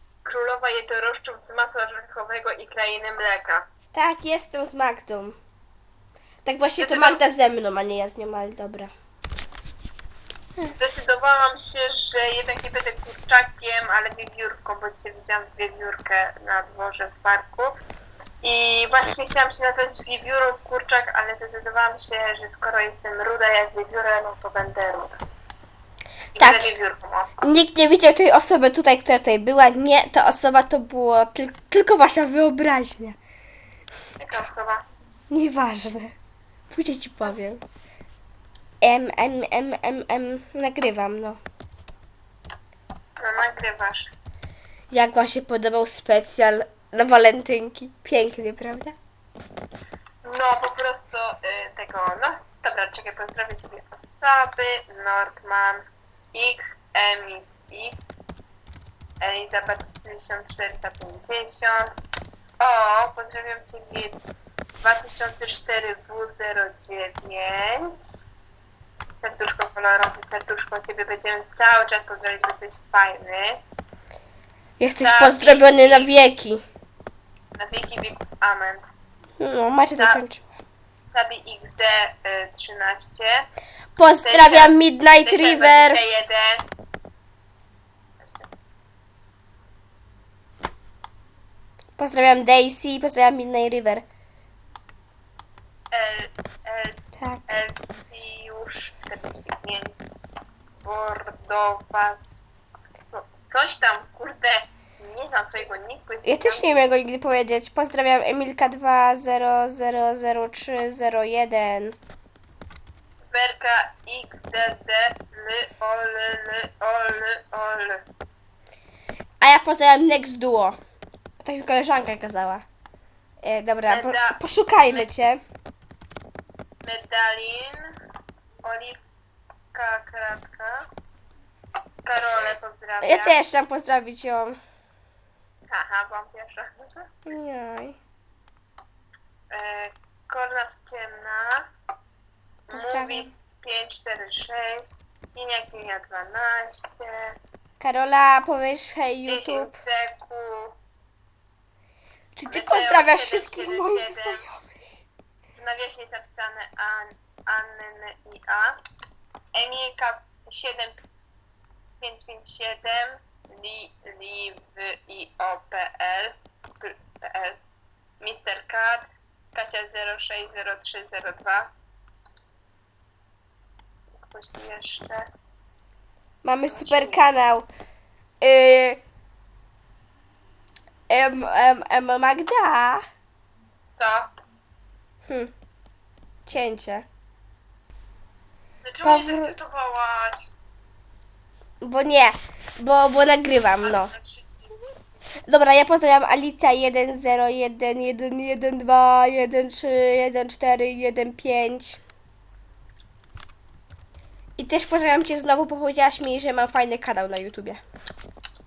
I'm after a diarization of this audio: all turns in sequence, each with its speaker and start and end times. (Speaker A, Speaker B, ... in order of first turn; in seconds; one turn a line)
Speaker A: 0.2-3.6
Speaker B: 3.9-5.4
Speaker B: 6.5-8.9
Speaker A: 6.8-7.2
Speaker A: 10.7-17.8
Speaker A: 18.4-25.2
Speaker A: 26.4-27.3
Speaker B: 26.4-26.7
Speaker B: 27.4-33.2
Speaker A: 34.2-34.8
Speaker B: 35.3-36.1
Speaker B: 36.7-37.6
Speaker B: 38.8-41.4
Speaker A: 43.2-44.1
Speaker B: 44.9-49.0
Speaker A: 50.2-55.8
Speaker A: 56.3-58.0
Speaker A: 59.2-61.9
Speaker A: 62.6-64.2
Speaker A: 64.8-68.2
Speaker A: 69.2-73.6
Speaker B: 74.8-76.6
Speaker A: 75.0-76.1
Speaker A: 77.6-78.9
Speaker B: 79.4-80.5
Speaker A: 80.0-80.2
Speaker A: 81.1-83.4
Speaker B: 84.0-86.0
Speaker A: 84.2-86.7
Speaker A: 88.2-88.5
Speaker B: 92.0-94.0
Speaker A: 95.9-97.0
Speaker B: 97.2-97.6
Speaker A: 97.5-100.0
Speaker A: 100.8-102.2
Speaker A: 103.1-106.9
Speaker B: 106.2-112.0
Speaker A: 113.3-118.0
Speaker B: 119.4-120.8
Speaker B: 121.4-122.6
Speaker B: 123.4-125.4
Speaker A: 123.9-125.1
Speaker A: 126.8-127.9
Speaker A: 128.6-129.1
Speaker A: 129.7-130.9
Speaker A: 132.1-133.4
Speaker B: 133.0-134.6
Speaker A: 135.7-137.1
Speaker B: 137.3-138.0
Speaker A: 139.5-141.7
Speaker A: 142.7-147.3
Speaker B: 142.7-143.3
Speaker B: 147.8-149.8
Speaker A: 149.3-150.8
Speaker B: 152.4-154.6
Speaker A: 152.5-154.4
Speaker A: 155.6-158.8
Speaker A: 159.6-161.0
Speaker A: 162.0-167.6
Speaker A: 168.2-171.7
Speaker A: 174.2-175.3
Speaker B: 176.4-177.7
Speaker A: 176.7-177.2
Speaker B: 178.4-179.0
Speaker B: 181.1-183.0
Speaker A: 184.0-184.3
Speaker B: 185.3-185.5
Speaker B: 186.5-187.1
Speaker A: 188.8-190.5
Speaker B: 189.0-189.5
Speaker B: 191.8-194.1
Speaker A: 193.8-195.0
Speaker B: 195.5-202.0
Speaker B: 204.6-207.8